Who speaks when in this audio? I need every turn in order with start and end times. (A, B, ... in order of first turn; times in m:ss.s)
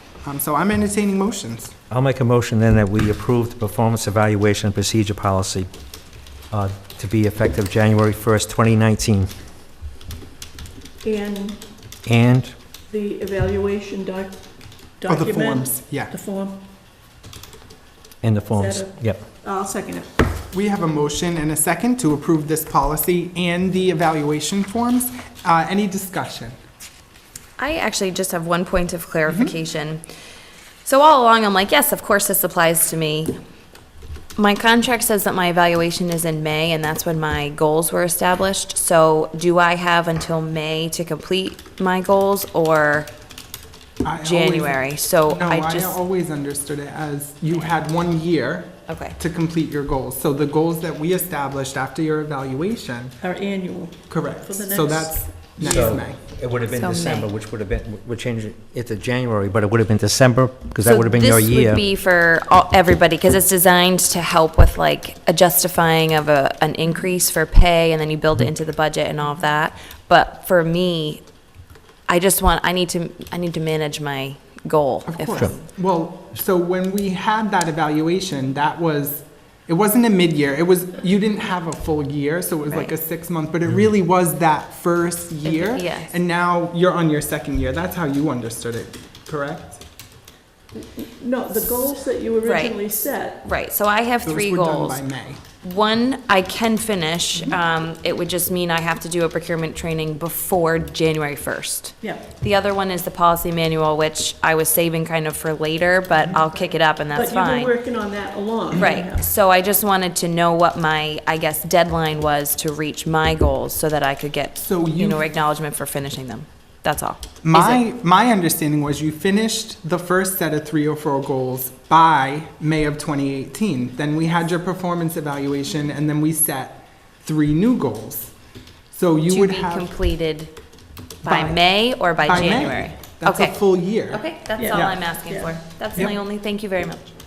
0:00.2-0:01.8 A
0:01.9-0:05.7 B
0:06.5-0:09.4 B
0:11.0-0:11.6 C
0:12.0-0:12.5 B
0:12.9-0:14.4 C
0:15.0-0:16.6 C
0:15.1-0:16.1 A
0:18.2-0:19.3 B
0:18.5-0:20.2 C
0:20.5-0:26.6 A
0:27.6-0:30.0 D
0:29.3-0:29.6 A
0:30.8-0:33.4 D
0:34.4-0:43.1 D
0:44.0-0:53.2 A
0:44.2-0:46.0 D
0:48.9-0:49.2 D
0:53.2-0:55.2 C
0:54.1-0:56.2 A
0:55.6-1:01.8 B
0:56.6-0:57.3 D
1:00.8-1:11.2 D
1:12.1-1:15.6 D
1:15.1-1:29.8 A
1:22.7-1:22.9 D
1:25.4-1:26.1 D
1:31.0-1:33.4 C
1:32.4-1:32.8 D
1:33.4-1:35.0 D
1:34.2-1:35.4 A
1:35.6-1:47.7 D
1:47.1-1:49.3 C
1:48.8-1:57.8 D
1:54.6-1:55.2 A
1:57.4-2:08.3 A
2:08.9-2:09.9 A
2:09.3-2:10.5 D
2:11.2-2:13.6 D
2:12.2-2:15.0 A
2:14.1-2:17.0 D
2:14.6-2:15.6 C